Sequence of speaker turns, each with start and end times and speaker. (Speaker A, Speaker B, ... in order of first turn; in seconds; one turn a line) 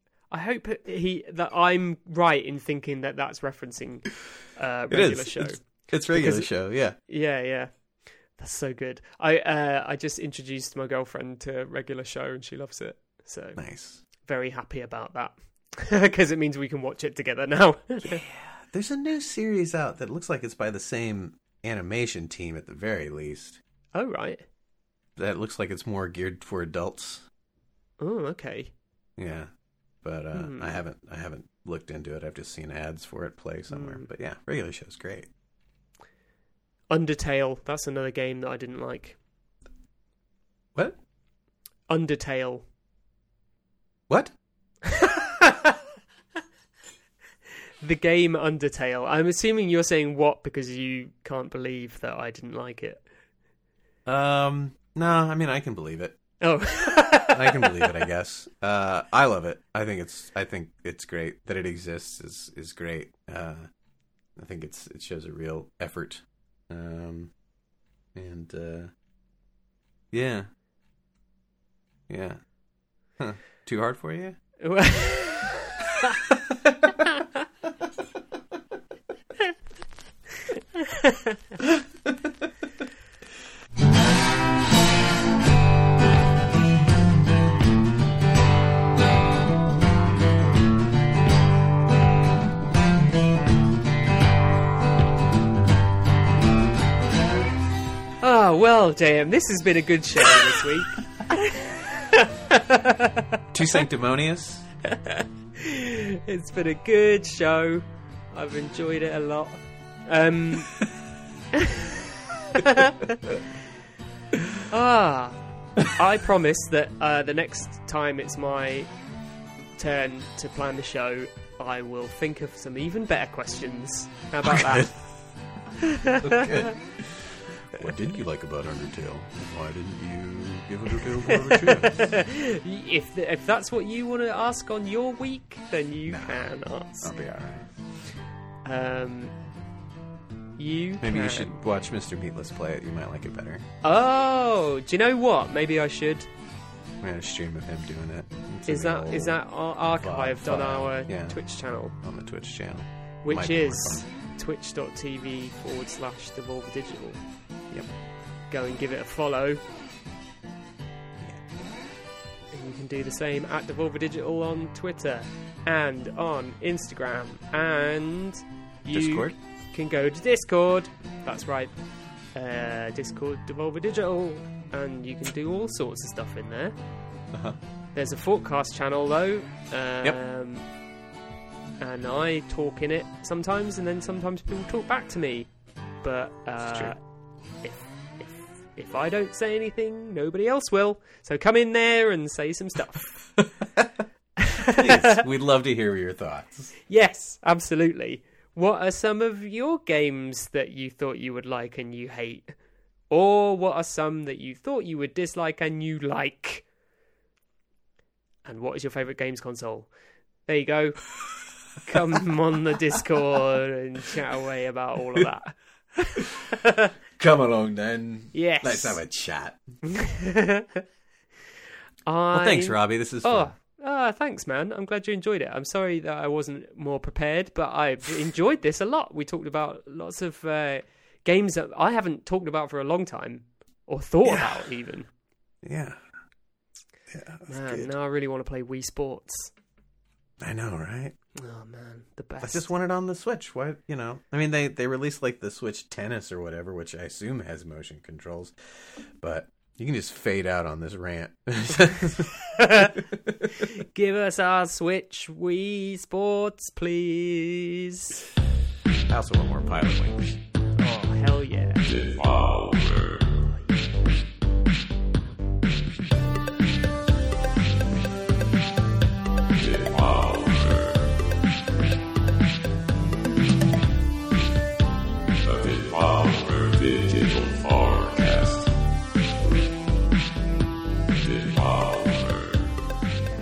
Speaker A: 0.3-7.8
Speaker B: 4.9-7.0
Speaker A: 8.3-18.2
Speaker B: 13.6-14.0
Speaker B: 18.0-23.6
Speaker A: 23.9-24.4
Speaker B: 25.2-27.3
Speaker A: 28.0-28.7
Speaker B: 29.2-29.5
Speaker B: 30.0-35.3
Speaker A: 30.3-30.8
Speaker A: 33.7-34.1
Speaker A: 36.9-39.2
Speaker A: 41.9-42.6
Speaker B: 44.1-44.3
Speaker A: 44.8-45.8
Speaker A: 47.8-53.0
Speaker B: 54.0-56.2
Speaker A: 56.4-58.1
Speaker B: 57.3-63.7
Speaker B: 64.3-67.3
Speaker B: 68.1-68.9
Speaker B: 70.1-70.5
Speaker B: 72.1-72.4
Speaker B: 73.2-74.4
Speaker A: 74.6-76.1
Speaker A: 80.5-81.3
Speaker A: 98.2-103.4
Speaker B: 103.5-104.7
Speaker A: 104.8-110.8
Speaker A: 111.5-113.4
Speaker A: 114.7-118.9
Speaker A: 119.8-124.9
Speaker B: 124.4-125.0
Speaker A: 125.8-126.7
Speaker B: 126.2-132.2
Speaker A: 131.2-137.1
Speaker B: 136.1-137.7
Speaker A: 138.6-139.3
Speaker A: 140.6-141.6
Speaker B: 141.0-143.6
Speaker A: 143.8-146.2
Speaker B: 147.0-151.4
Speaker A: 148.7-151.9
Speaker B: 151.9-154.1
Speaker A: 153.2-157.2
Speaker A: 158.5-159.6
Speaker A: 162.5-171.7
Speaker B: 168.9-169.3
Speaker A: 172.3-176.7
Speaker B: 177.3-177.6
Speaker A: 177.9-180.7
Speaker A: 181.8-185.5
Speaker A: 186.0-187.0
Speaker B: 186.6-186.9
Speaker A: 187.6-193.2
Speaker B: 193.4-194.0
Speaker A: 194.4-195.2
Speaker B: 194.7-196.7
Speaker A: 196.9-202.5
Speaker A: 203.1-206.7
Speaker A: 208.4-209.9
Speaker A: 210.4-211.1
Speaker A: 211.8-216.9
Speaker B: 217.2-219.6
Speaker A: 218.3-219.0
Speaker A: 219.9-220.8
Speaker A: 222.1-235.1
Speaker B: 222.3-223.5
Speaker B: 234.2-234.7
Speaker B: 235.6-236.0
Speaker B: 237.1-237.9
Speaker A: 237.5-239.5
Speaker B: 240.4-241.1
Speaker A: 241.3-242.7
Speaker B: 242.4-253.6
Speaker A: 252.4-258.2
Speaker B: 259.1-260.3
Speaker A: 260.8-261.8
Speaker C: 261.8-263.5
Speaker C: 269.5-271.1
Speaker C: 275.4-278.7
Speaker C: 281.1-282.8